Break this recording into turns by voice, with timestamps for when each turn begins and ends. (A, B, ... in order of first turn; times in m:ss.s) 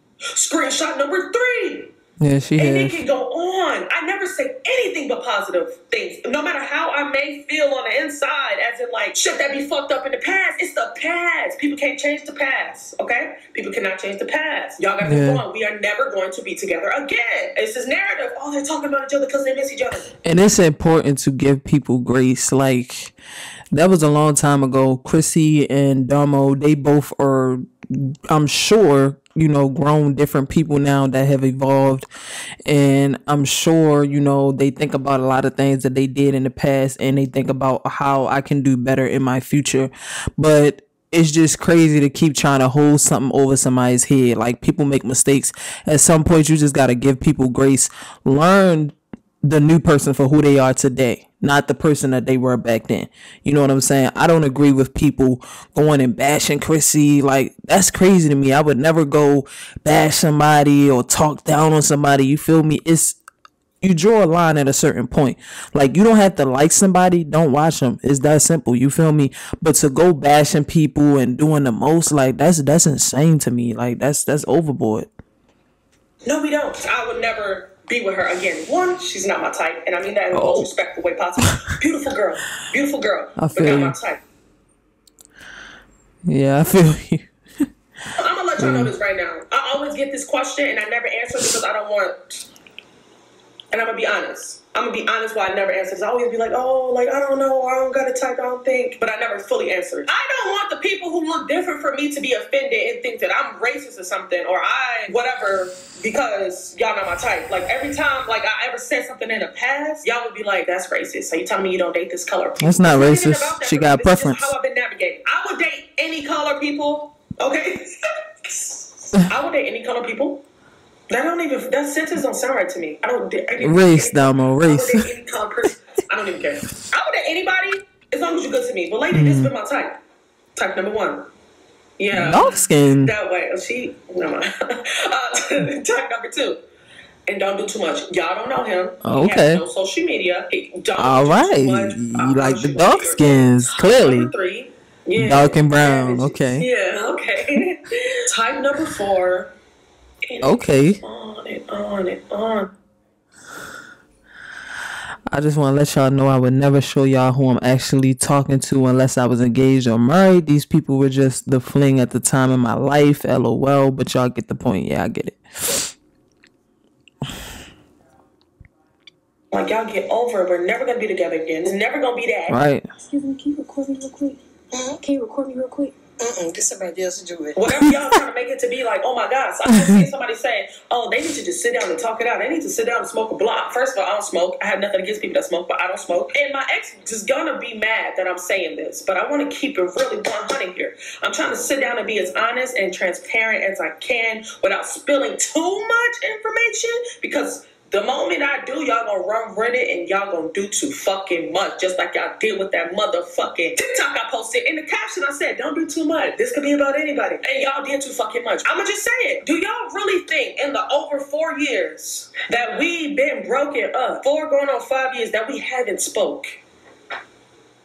0:00.3-0:01.9 A
0:02.2-0:03.0 B
0:02.6-0:20.1 A
0:15.0-0:15.4 B
0:20.2-0:23.1 B
0:23.7-0:32.1 B
0:32.7-1:03.2 B
1:03.8-1:15.1 B
1:16.3-1:24.2 A
1:20.3-1:20.7 B
1:23.4-1:24.0 B
1:26.3-1:27.3 B
1:28.2-1:32.4 A
1:28.6-1:28.9 B
1:33.7-1:57.8 A
1:52.6-1:54.5 B
1:58.4-2:00.4 A
2:01.1-2:10.0 A
2:03.6-2:05.1 B
2:09.1-2:09.5 B
2:10.6-2:11.3 A
2:12.0-2:16.6 A
2:12.1-2:13.1 B
2:17.3-2:29.5 A
2:19.0-2:19.6 B
2:21.0-2:24.3 B
2:25.2-2:26.7 B
2:30.3-2:32.7 A
2:30.4-2:31.0 B
2:35.3-2:45.8 B
2:49.5-2:52.6 A
2:52.5-2:52.9 B
2:54.7-2:57.6 C
2:57.6-3:36.6 A
2:59.7-3:00.1 B